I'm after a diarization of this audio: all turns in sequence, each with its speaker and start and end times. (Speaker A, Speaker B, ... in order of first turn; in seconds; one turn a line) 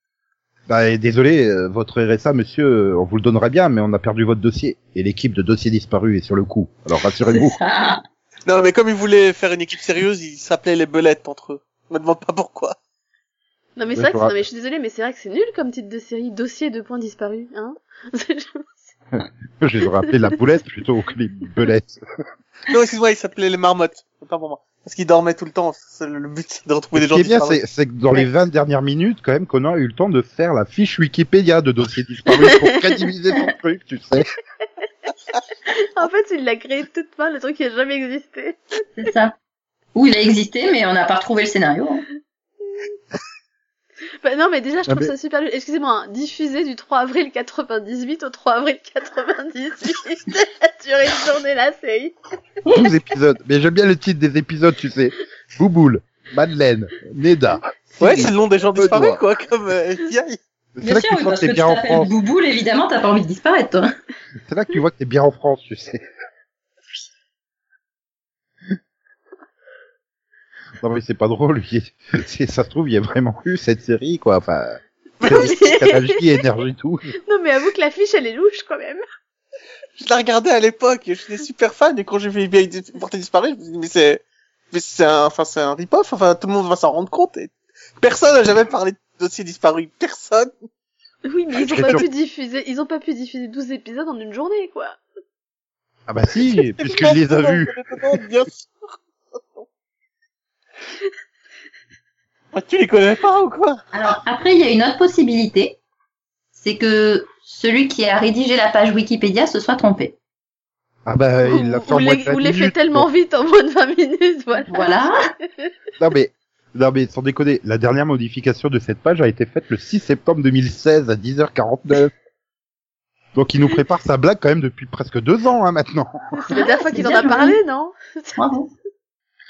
Speaker A: 0.7-7.6
Speaker B: 7.2-8.0
Speaker C: 8.4-12.8
Speaker D: 13.8-18.7
Speaker A: 13.9-14.3
Speaker A: 19.1-22.0
Speaker C: 22.7-27.6
Speaker A: 26.9-34.3
Speaker D: 32.4-33.0
Speaker D: 35.7-38.6
Speaker B: 39.0-39.3
Speaker B: 39.9-42.0
Speaker D: 44.2-52.1
Speaker A: 44.9-45.1
Speaker A: 52.7-59.2
Speaker C: 58.0-60.4
Speaker A: 60.7-62.1
Speaker B: 60.8-63.9
Speaker A: 64.5-66.0
Speaker A: 70.8-77.1
Speaker D: 75.2-76.2
Speaker D: 77.3-79.0
Speaker C: 80.0-90.5
Speaker D: 91.3-95.0
Speaker A: 91.6-92.0
Speaker A: 96.1-97.8
Speaker C: 96.7-98.7
Speaker C: 102.5-103.8
Speaker B: 103.9-105.8
Speaker B: 106.5-110.1
Speaker A: 111.0-113.1
Speaker D: 111.4-115.7
Speaker B: 114.7-115.2
Speaker A: 116.0-122.1
Speaker A: 123.3-126.2
Speaker D: 126.4-128.4
Speaker B: 126.5-127.6
Speaker B: 128.3-128.7